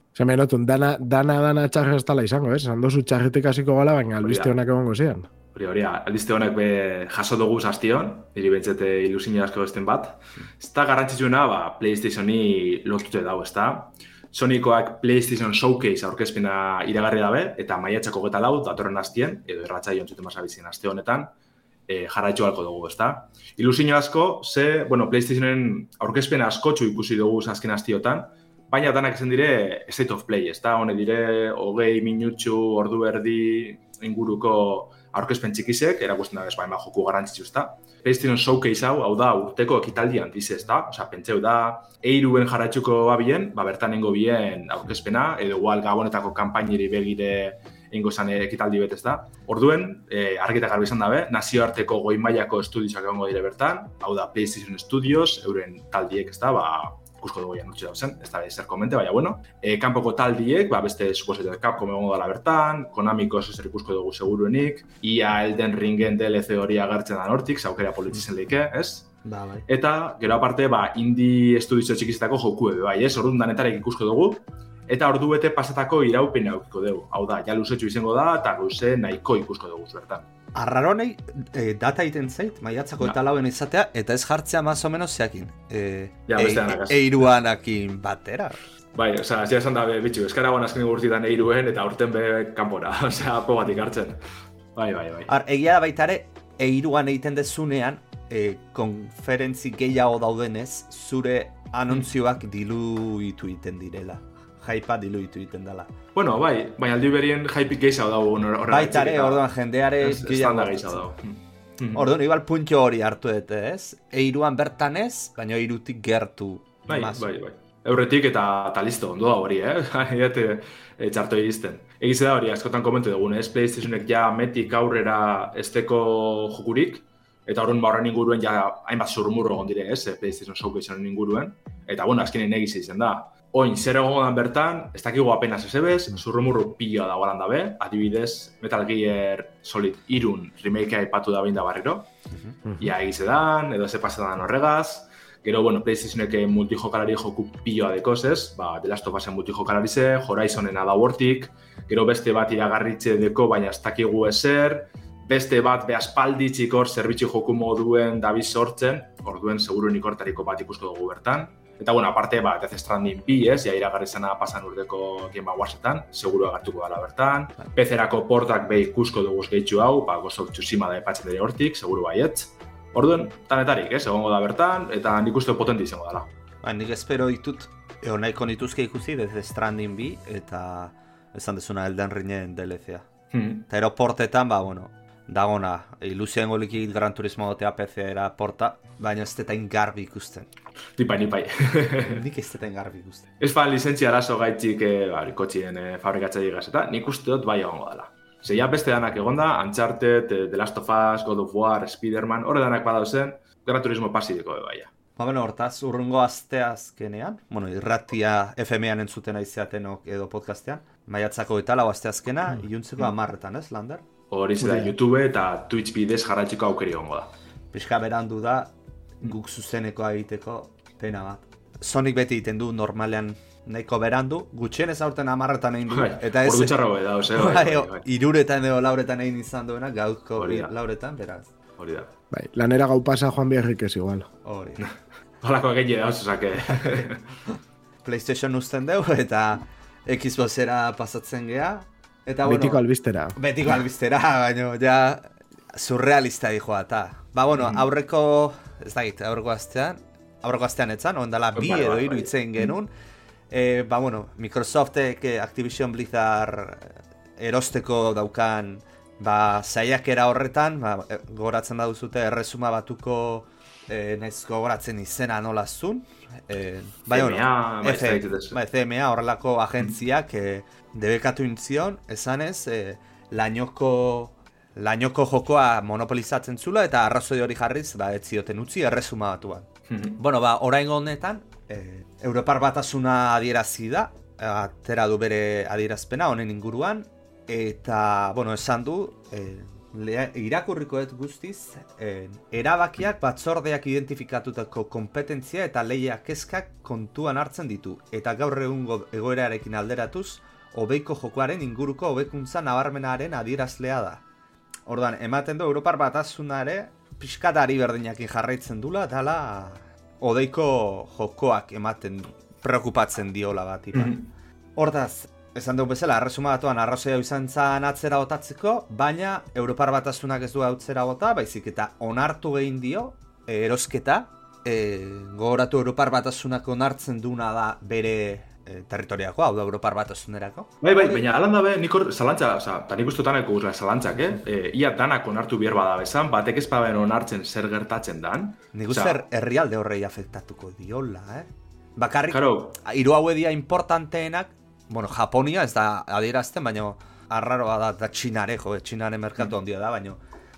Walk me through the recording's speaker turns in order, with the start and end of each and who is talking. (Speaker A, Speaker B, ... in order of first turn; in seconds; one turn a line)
Speaker A: 0.1-5.3
Speaker B: 4.2-4.6
Speaker B: 5.5-21.3
Speaker B: 21.9-69.1
Speaker C: 69.2-69.7
Speaker B: 69.7-80.3
Speaker C: 80.5-88.6
Speaker B: 86.3-87.3
Speaker B: 89.0-94.2
Speaker B: 94.8-95.3
Speaker C: 95.3-105.9
Speaker B: 106.2-112.1
Speaker C: 108.7-111.1
Speaker C: 111.9-117.3
Speaker B: 116.9-142.1
Speaker B: 142.8-176.3
Speaker C: 176.6-183.1
Speaker B: 183.3-183.7
Speaker C: 183.7-190.5
Speaker B: 191.0-192.2
Speaker C: 192.1-193.3
Speaker B: 193.4-204.9
Speaker C: 205.2-214.0
Speaker B: 214.3-217.3
Speaker A: 214.6-214.9
Speaker C: 217.7-226.8
Speaker B: 225.9-228.1
Speaker C: 227.4-231.5
Speaker B: 230.4-230.7
Speaker B: 231.8-232.1
Speaker A: 232.3-234.3
Speaker C: 234.4-234.9
Speaker B: 234.8-237.2
Speaker C: 238.0-242.8
Speaker A: 242.4-243.4
Speaker C: 243.4-252.9
Speaker B: 247.6-247.8
Speaker B: 251.6-252.8
Speaker C: 253.5-304.2
Speaker B: 267.1-268.6
Speaker B: 279.9-280.2
Speaker C: 304.9-314.2
Speaker B: 313.9-314.3
Speaker C: 314.8-331.2
Speaker B: 330.8-339.2
Speaker C: 338.7-350.2
Speaker B: 342.3-342.8